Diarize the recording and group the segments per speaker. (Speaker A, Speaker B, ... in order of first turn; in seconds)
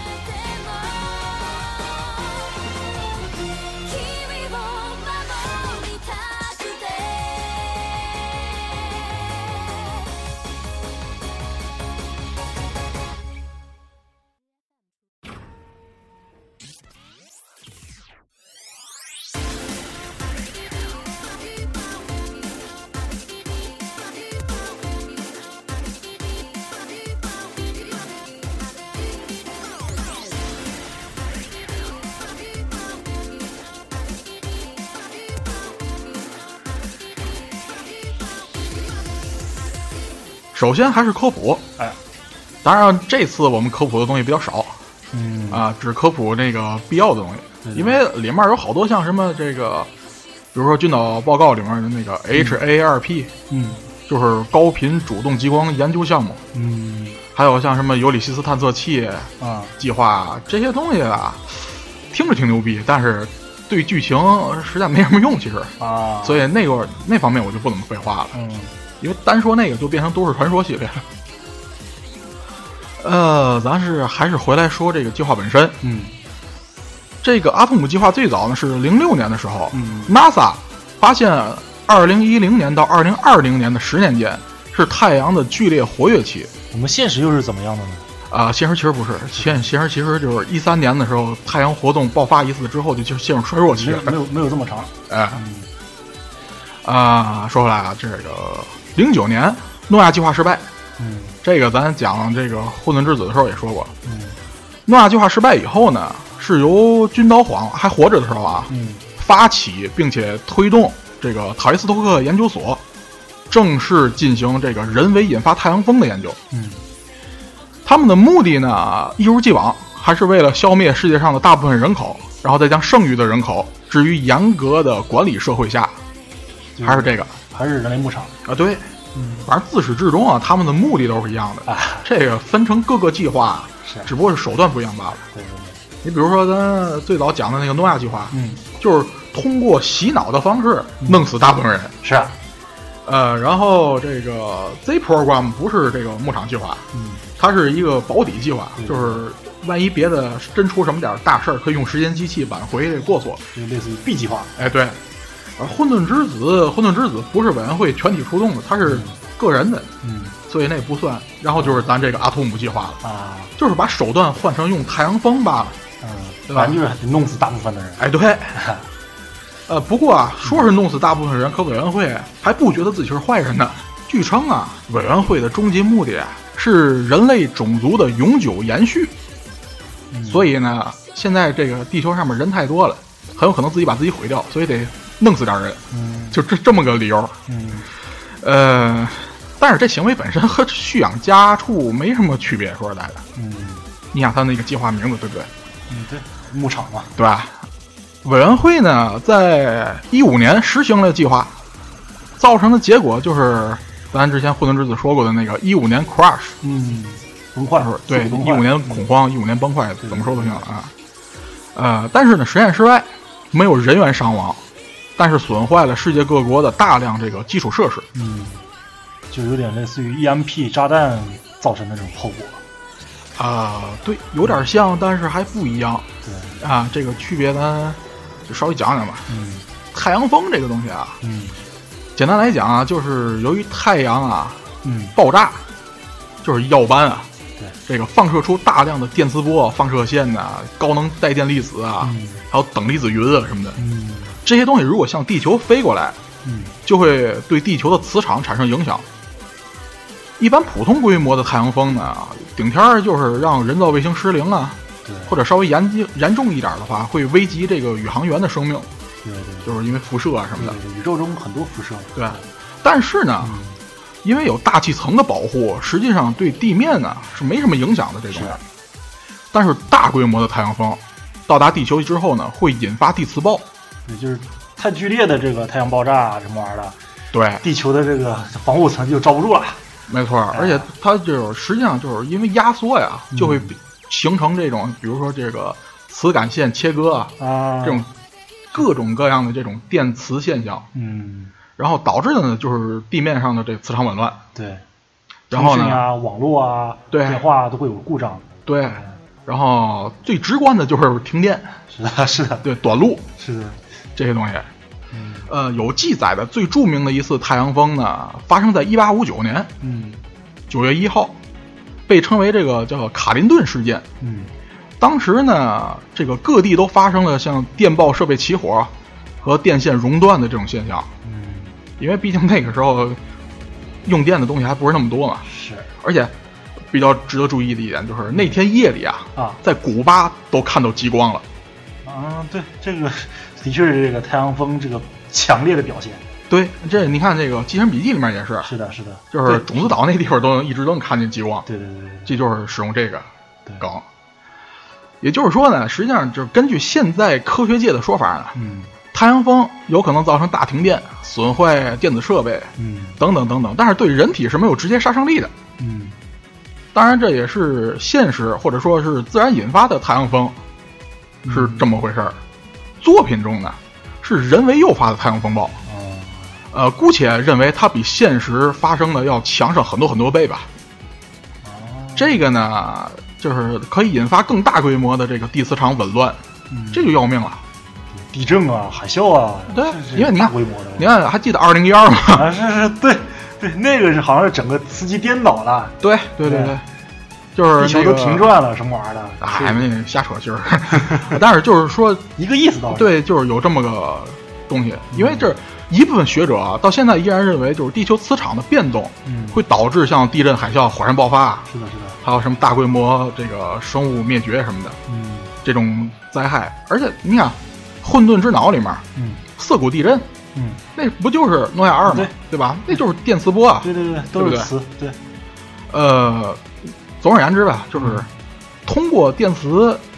Speaker A: 0.2-10.2
Speaker B: 40.5-41.6, 42.6-44.8, 45.5-49.9, 50.5-53.3, 54.1-56.4, 57.4-68.3, 69.0-71.1, 73.0-75.8, 77.2-86.5, 88.3-94.2, 95.1-95.4, 96.8-100.7, 101.4-103.9, 104.9-112.8, 113.5-116.4, 117.8-126.0, 126.8-127.3, 128.4-128.9, 129.5-135.2, 136.0-141.9, 143.1-146.9, 147.4-153.5, 154.6-155.0, 155.6-159.9, 160.5-163.0, 163.6-165.8, 166.5-166.8, 168.0-168.6, 169.7-179.1, 180.3-187.4, 188.4-193.2, 194.1-195.5, 197.2-197.6, 198.2-201.6, 202.4-206.6, 207.8-210.9, 211.8-214.6, 215.2-218.1, 223.4-226.1, 226.6-229.3, 229.9-231.2, 232.2-234.6, 235.2-235.6, 236.4-237.3, 237.9-243.8, 244.4-246.2, 246.8-249.1, 250.4-258.9, 259.6-260.8, 262.1-263.6, 264.2-268.6, 269.5-273.7, 277.3-277.6, 280.1-288.1, 288.7-290.9, 291.8-294.4, 295.5-296.1, 297.1-297.4, 298.7-301.8, 302.6-303.3, 304.2-304.7, 305.5-309.7, 310.7-311.3, 312.1-314.1, 315.0-321.1, 322.0-323.2, 324.1-325.4, 326.0-326.3, 326.9-331.4, 336.5-338.7, 339.3-341.7, 342.3-343.3, 343.8-344.1, 345.2-348.6, 349.1-355.5, 356.9-360.6, 361.4-362.4, 363.0-365.8, 366.7-370.7, 372.2-376.4, 376.9-377.6, 379.7-382.5, 386.0-386.8, 387.6-388.5, 389.4-392.3, 392.9-401.7, 402.2-405.0, 405.6-409.0, 409.6-410.3, 410.9-414.7, 415.9-416.6, 417.2-418.3, 418.9-420.0
Speaker C: 45.1-45.6, 47.6-48.0, 52.4-52.6, 53.5-53.8, 56.5-57.2, 59.4-59.7, 65.8-66.5, 68.3-68.7, 75.8-76.1, 79.7-80.2, 86.7-88.1, 89.3-89.7, 93.7-95.7, 101.0-101.4, 104.0-104.4, 108.7-109.1, 116.5-116.8, 126.8-128.3, 129.2-129.5, 131.7-132.1, 133.8-134.1, 135.3-135.8, 138.3-138.7, 141.0-141.3, 142.0-142.3, 146.9-147.2, 148.8-149.2, 153.5-154.7, 158.8-159.2, 160.0-160.4, 161.6-161.9, 163.0-163.5, 166.0-168.8, 180.1-180.5, 185.9-186.4, 187.5-187.9, 193.3-193.8, 195.9-197.2, 206.6-209.1, 210.0-210.7, 218.1-218.6, 219.3-222.6, 224.4-224.7, 226.2-226.6, 229.3-229.7, 231.2-231.6, 234.8-235.1, 242.0-242.4, 243.8-244.4, 246.4-246.8, 255.1-255.4, 259.2-259.8, 260.6-262.4, 263.4-263.8, 268.3-268.6, 274.1-277.0, 277.6-279.8, 280.5-280.9, 283.3-283.8, 287.4-288.1, 290.9-291.5, 294.6-294.8, 295.5-299.1, 301.9-302.7, 303.4-303.8, 305.1-305.5, 309.8-310.2, 314.2-314.5, 321.2-321.8, 325.4-325.9, 332.1-336.2, 338.6-339.9, 341.7-342.3, 348.6-348.9, 352.8-353.2, 355.8-356.2, 361.4-361.9, 365.9-366.6, 371.6-372.4, 376.7-377.1, 378.1-381.1, 382.3-386.8, 387.8-389.9, 390.9-391.3, 392.4-393.2, 395.1-395.5, 399.2-399.6, 401.7-402.2, 405.1-405.5, 409.1-409.4, 410.6-410.8, 412.1-412.3, 413.8-415.2, 417.9-418.3